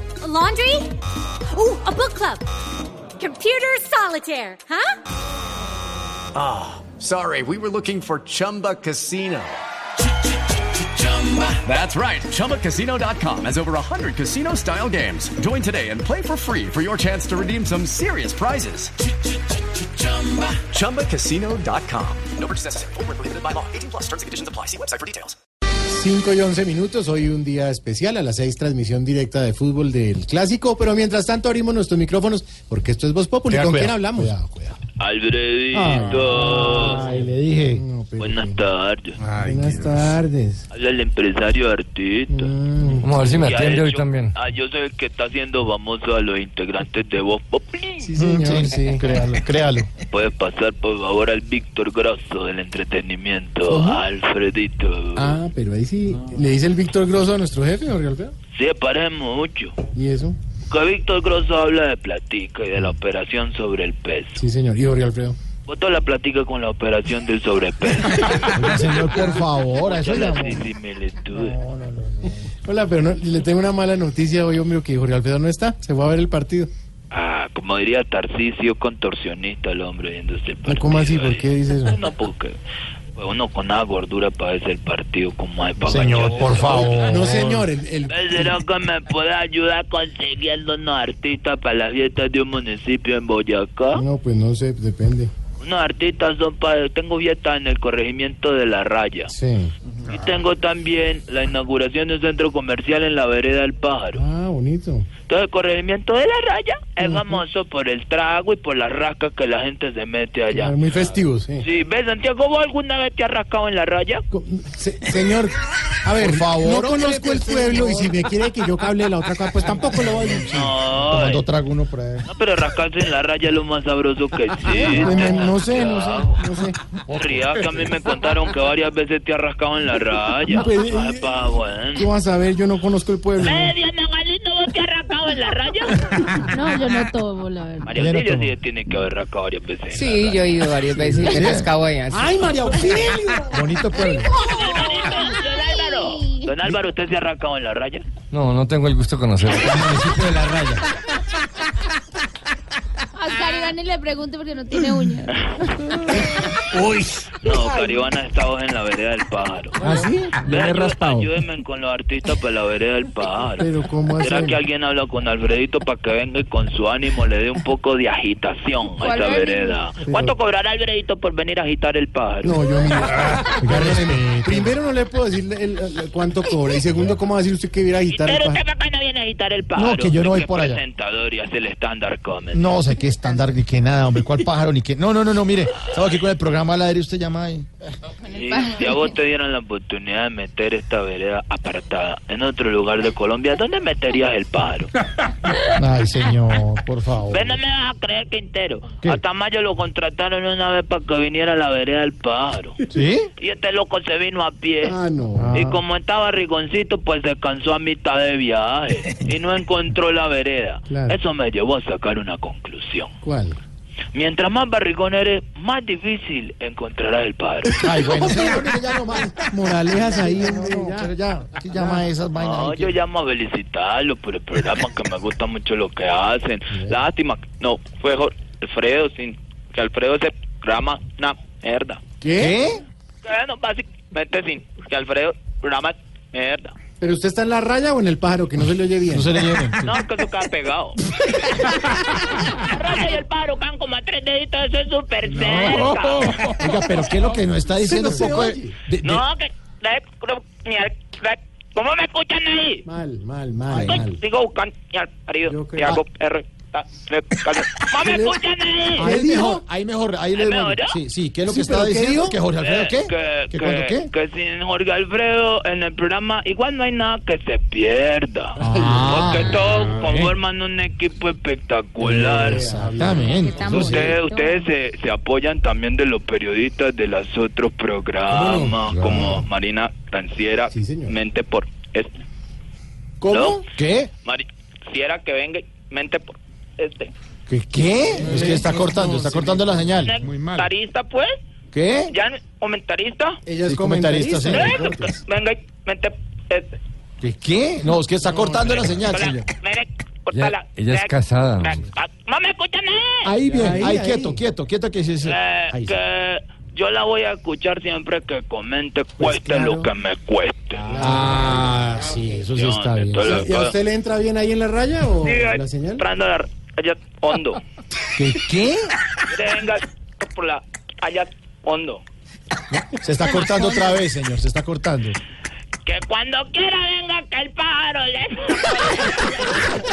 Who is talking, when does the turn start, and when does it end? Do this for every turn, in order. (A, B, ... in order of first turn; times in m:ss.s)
0:00.2-0:00.9 A
0:01.5-0:02.4 A
0:03.2-0:04.9 A
0:06.3-0:09.6 B
0:11.4-0:18.9 B
0:20.0-0:25.4 B
0:25.9-0:34.8 C
0:33.5-0:34.3 D
0:35.0-0:37.0 E
0:35.7-0:38.6 C
0:36.4-0:37.8 D
0:38.2-0:39.2 E
0:39.4-0:40.6 C
0:40.7-0:42.5 E
0:42.3-0:43.3 C
0:43.0-0:44.3 F
0:43.2-0:48.1 E
0:48.0-0:49.2 C
0:48.2-0:49.9 D
0:50.1-0:55.4 E
0:53.7-0:54.0 C
0:55.1-0:58.3 C
0:58.5-0:59.8 E
0:59.9-1:00.4 C
1:00.7-1:04.4 E
1:04.4-1:05.4 C
1:05.6-1:08.5 E
1:08.5-1:10.5 D
1:09.8-1:11.6 E
1:10.0-1:10.6 C
1:11.4-1:12.3 D
1:12.6-1:16.7 C
1:17.1-1:22.5 E
1:20.6-1:22.0 C
1:23.2-1:27.2 E
1:25.8-1:27.7 D
1:25.8-1:28.6 C
1:28.1-1:34.0 E
1:33.9-1:35.3 C
1:35.6-1:39.3 E
1:39.3-1:39.7 C
1:40.0-1:44.2 E
1:44.1-1:45.1 C
1:45.3-1:50.8 E
1:47.0-1:47.4 C
1:50.5-1:51.6 C
1:51.6-1:54.2 E
1:54.3-2:00.7 C
1:56.1-1:58.2 D
2:00.5-2:01.4 E
2:01.0-2:02.2 D
2:02.2-2:06.4 E
2:04.7-2:06.8 C
2:07.1-2:12.1 E
2:10.5-2:11.3 C
2:11.9-2:13.7 C
2:13.4-2:16.2 E
2:16.5-2:17.9 G
2:17.8-2:20.7 E
2:17.9-2:18.5 D
2:19.9-2:22.7 H
2:20.9-2:21.7 D
2:22.1-2:23.8 C
2:23.5-2:24.4 D
2:24.4-2:28.1 E
2:25.7-2:26.5 G
2:28.3-2:30.4 F
2:30.0-2:30.8 D
2:33.2-2:35.3 G
2:35.4-2:36.0 E
2:37.4-2:39.8 E
2:39.8-2:40.3 D
2:40.4-2:52.6 E
2:43.6-2:44.6 C
2:49.0-2:49.8 G
2:50.0-2:50.3 C
2:52.4-2:58.6 C
2:53.6-2:54.7 D
2:58.1-3:02.7 E
2:59.7-3:00.8 D
3:02.5-3:07.7 D
3:08.2-3:14.9 E
3:15.6-3:17.6 D
3:17.3-3:22.8 E
3:22.9-3:23.3 D
3:23.4-3:25.0 E
3:24.8-3:25.8 C
3:25.5-3:33.1 E
3:30.9-3:31.2 C
3:33.2-3:33.6 C
3:34.1-3:37.8 E
3:37.8-3:39.3 D
3:37.8-3:41.2 C
3:39.9-3:43.0 D
3:41.7-3:42.1 C
3:42.4-3:52.0 E
3:46.7-3:47.0 C
3:52.2-3:52.5 C
3:52.4-3:52.8 D
3:53.2-3:56.7 E
3:57.0-3:59.4 C
3:59.1-4:00.0 D
3:59.8-4:01.7 E
4:02.3-4:06.5 E
4:06.4-4:09.2 D
4:07.7-4:08.8 C
4:09.0-4:12.8 E
4:12.8-4:14.2 C
4:13.7-4:14.0 D
4:13.8-4:19.1 E
4:15.4-4:16.0 C
4:18.0-4:18.4 C
4:18.9-4:19.6 C
4:19.0-4:24.1 D
4:20.3-4:21.0 E
4:21.4-4:22.4 C
4:22.6-4:32.7 E
4:28.6-4:29.6 D
4:32.0-4:34.1 D
4:32.1-4:34.1 C
4:33.2-4:34.5 G
4:33.5-4:33.8 A
4:33.6-4:42.2 E
4:38.3-4:38.8 C
4:38.9-4:39.2 F
4:40.7-4:41.2 C
4:43.2-4:43.6 C
4:43.3-4:43.6 E
4:43.7-4:44.1 D
4:44.2-4:47.1 E
4:47.5-4:50.2 D
4:48.1-4:50.0 C
4:50.0-4:51.3 E
4:51.7-4:52.1 D
4:52.1-4:53.4 E
4:53.4-4:55.2 C
4:53.6-4:54.8 D
4:54.5-4:56.8 E
4:57.2-4:59.4 D
4:58.2-4:59.0 C
4:59.1-5:03.3 E
5:00.3-5:01.8 F
5:03.2-5:06.0 D
5:03.4-5:04.4 C
5:05.2-5:11.2 E
5:09.2-5:09.9 C
5:10.8-5:12.4 C
5:10.8-5:13.4 D
5:11.0-5:11.6 F
5:12.5-5:13.7 E
5:13.2-5:16.0 C
5:15.2-5:17.6 E
5:18.0-5:18.9 D
5:19.2-5:22.0 E
5:22.7-5:25.2 D
5:25.8-5:29.7 E